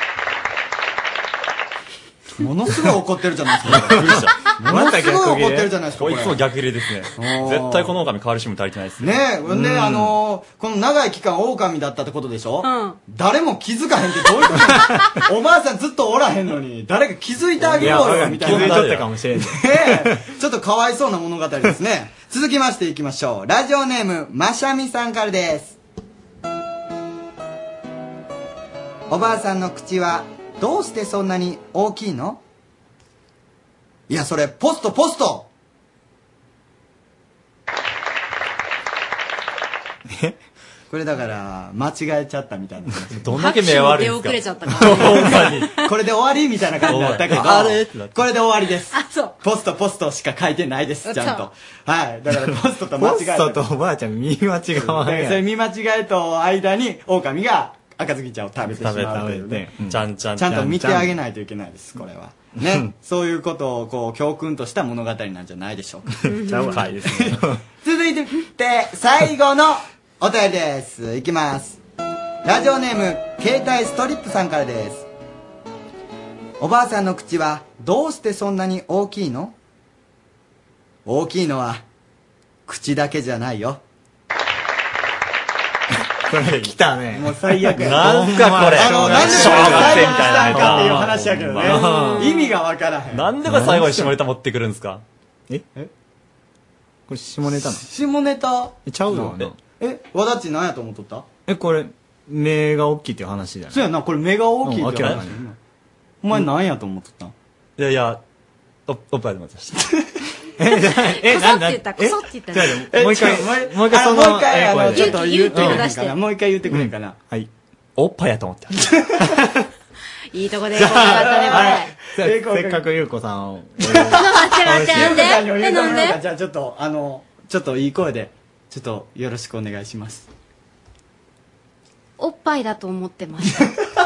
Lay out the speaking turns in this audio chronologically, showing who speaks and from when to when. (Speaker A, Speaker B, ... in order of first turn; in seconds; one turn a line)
Speaker A: 2.4-6.4
Speaker B: 3.7-4.3
Speaker C: 3.9-5.8
Speaker B: 6.0-9.3
Speaker A: 7.2-7.9
Speaker A: 9.0-25.8
Speaker C: 9.5-10.1
Speaker D: 12.6-13.0
Speaker C: 17.6-20.2
Speaker B: 17.7-19.1
Speaker A: 29.1-32.4
Speaker A: 34.1-35.5
Speaker A: 40.9-43.3
Speaker B: 43.1-45.7
Speaker D: 43.3-45.6
Speaker A: 44.9-53.7
Speaker B: 46.9-48.1
Speaker D: 48.9-49.4
Speaker D: 51.0-51.5
Speaker C: 52.3-55.5
Speaker A: 54.7-59.7
Speaker C: 58.7-61.1
Speaker B: 58.8-59.1
Speaker B: 59.8-60.6
Speaker A: 60.4-66.1
Speaker C: 62.5-62.9
Speaker C: 66.2-67.6
Speaker D: 66.3-66.8
Speaker B: 66.8-67.4
Speaker A: 67.0-71.8
Speaker A: 72.4-75.1
Speaker A: 76.6-79.5
Speaker A: 81.0-81.8
Speaker A: 82.7-83.8
Speaker C: 86.3-92.4
Speaker B: 86.4-86.7
Speaker A: 87.1-93.3
Speaker B: 87.7-91.7
Speaker D: 91.7-92.5
Speaker B: 93.1-95.0
Speaker C: 93.4-94.2
Speaker C: 97.1-97.8
Speaker A: 97.6-101.3
Speaker C: 98.8-99.6
Speaker C: 101.5-103.9
Speaker A: 103.7-105.5
Speaker C: 104.6-105.4
Speaker A: 106.2-107.3
Speaker B: 107.8-108.2
Speaker B: 108.9-109.8
Speaker C: 110.6-115.9
Speaker D: 110.7-112.8
Speaker A: 112.8-117.2
Speaker D: 114.9-116.2
Speaker C: 116.7-117.5
Speaker B: 118.0-118.9
Speaker C: 119.2-119.5
Speaker D: 120.3-121.9
Speaker C: 120.7-125.4
Speaker A: 120.8-122.8
Speaker A: 123.9-130.3
Speaker D: 124.1-126.2
Speaker D: 132.2-133.7